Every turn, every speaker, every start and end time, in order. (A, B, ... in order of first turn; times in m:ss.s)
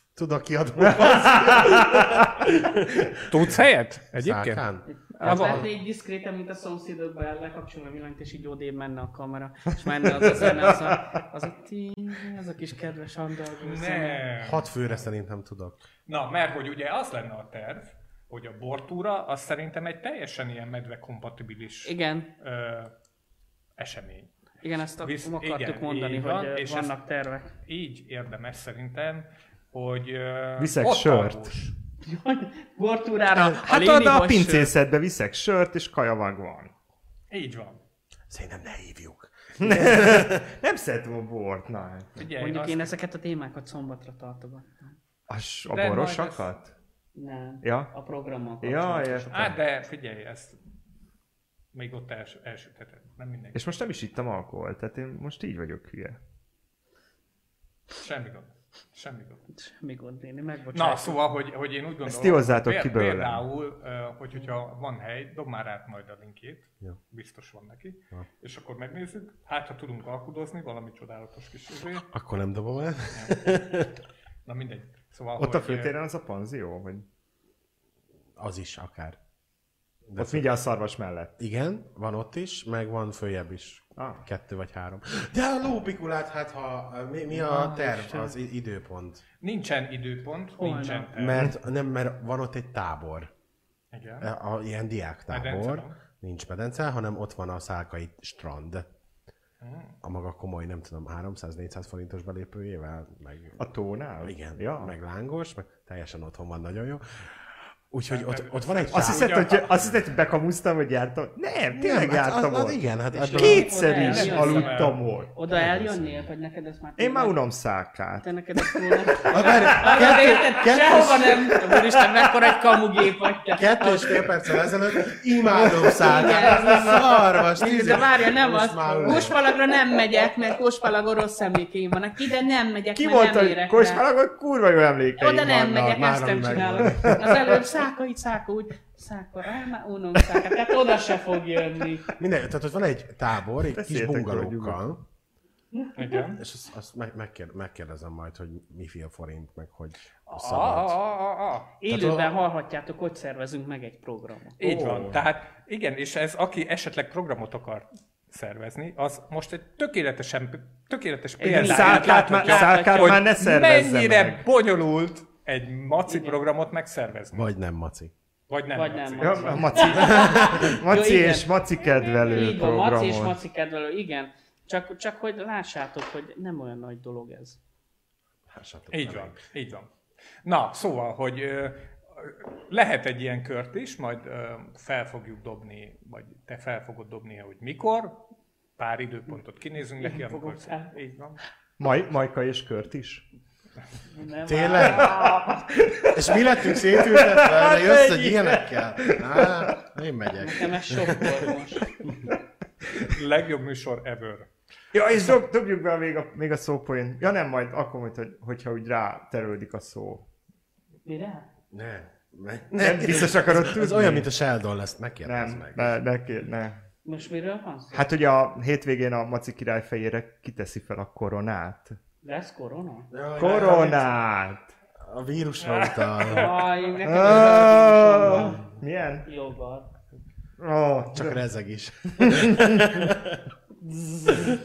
0:00.2-0:03.5 A
0:00.8-0:02.5 B
0:03.3-0:04.6 C
0:04.2-0:05.7 A
0:04.9-0:14.2 D
0:05.2-0:05.7 C
0:10.2-0:11.0 B
0:13.6-0:14.7 C
0:14.4-0:15.8 A
0:16.1-0:22.9 C
0:21.8-0:22.3 D
0:23.8-0:24.3 C
0:24.6-0:27.5 D
0:25.0-0:26.9 C
0:27.6-0:31.8 C
0:30.6-0:31.5 B
0:32.0-0:34.7 D
0:33.3-0:36.7 B
0:37.3-0:37.8 C
0:38.3-0:40.4 A
0:39.6-0:42.2 B
0:42.2-0:42.9 C
0:42.3-0:45.0 D
0:45.3-0:46.7 B
0:45.7-0:46.5 C
0:47.2-0:49.6 D
0:47.6-0:47.9 B
0:48.6-0:49.6 B
0:49.3-0:50.6 C
0:51.7-0:53.7 C
0:53.5-0:56.2 B
0:58.0-0:59.4 C
0:59.5-1:01.2 D
1:00.7-1:12.1 C
1:02.0-1:03.5 B
1:12.1-1:13.9 A
1:13.1-1:13.6 C
1:14.4-1:16.0 C
1:15.4-1:17.1 B
1:18.4-1:19.2 A
1:20.1-1:20.5 A
1:20.2-1:21.4 B
1:21.4-1:29.2 A
1:24.0-1:24.2 B
1:27.4-1:28.3 D
1:29.4-1:31.5 C
1:30.6-1:31.1 D
1:31.1-1:33.3 A
1:33.9-1:34.3 C
1:34.2-1:38.9 A
1:35.3-1:36.0 C
1:39.6-1:40.0 C
1:40.0-1:43.6 A
1:43.6-1:44.9 B
1:44.2-1:47.3 A
1:47.9-1:49.5 A
1:48.1-1:49.9 C
1:48.9-1:55.3 B
1:51.7-1:53.8 A
1:53.1-1:57.4 D
1:53.9-1:55.0 C
1:55.5-1:56.3 A
1:57.0-2:02.6 B
1:58.2-2:04.2 D
1:59.3-2:01.4 A
2:03.6-2:09.4 A
2:05.4-2:07.9 B
2:05.8-2:14.0 D
2:09.0-2:09.3 B
2:13.0-2:15.7 B
2:15.2-2:22.1 D
2:15.4-2:17.4 A
2:16.6-2:17.6 B
2:22.1-2:25.0 A
2:23.7-2:24.9 B
2:25.8-2:26.1 D
2:26.0-2:26.4 C
2:26.4-2:31.0 A
2:30.3-2:31.7 C
2:31.8-2:34.6 D
2:31.9-2:32.4 A
2:34.6-2:47.5 C
2:34.6-2:35.2 B
2:41.4-2:43.2 D
2:41.5-2:44.4 B
2:46.1-2:46.4 D
2:47.3-2:48.1 A
2:48.5-2:50.2 C
2:48.7-2:57.6 D
2:49.2-2:53.4 B
2:50.2-2:50.6 A
2:58.5-2:59.4 A
2:58.9-2:59.9 C
3:00.4-3:08.2 C
3:08.8-3:11.4 C
3:10.0-3:10.9 D
3:11.8-3:13.2 B
3:14.1-3:15.7 D
3:14.5-3:15.2 A
3:14.8-3:19.8 B
3:16.1-3:21.5 A
3:20.4-3:21.9 D
3:23.0-3:24.5 C
3:24.9-3:30.2 B
3:31.0-3:31.5 D
3:31.7-3:36.0 A
3:32.8-3:34.3 B
3:35.2-3:36.8 B
3:37.0-3:38.1 D
3:37.9-3:42.0 B
3:42.2-3:43.1 D
3:43.1-3:44.2 A
3:43.4-3:44.7 B
3:45.0-3:46.7 A
3:45.6-3:46.7 C
3:46.2-3:48.6 D
3:47.0-3:49.3 B
3:49.2-3:49.9 D
3:50.6-3:51.4 B
3:51.1-3:53.4 A
3:52.2-3:53.1 B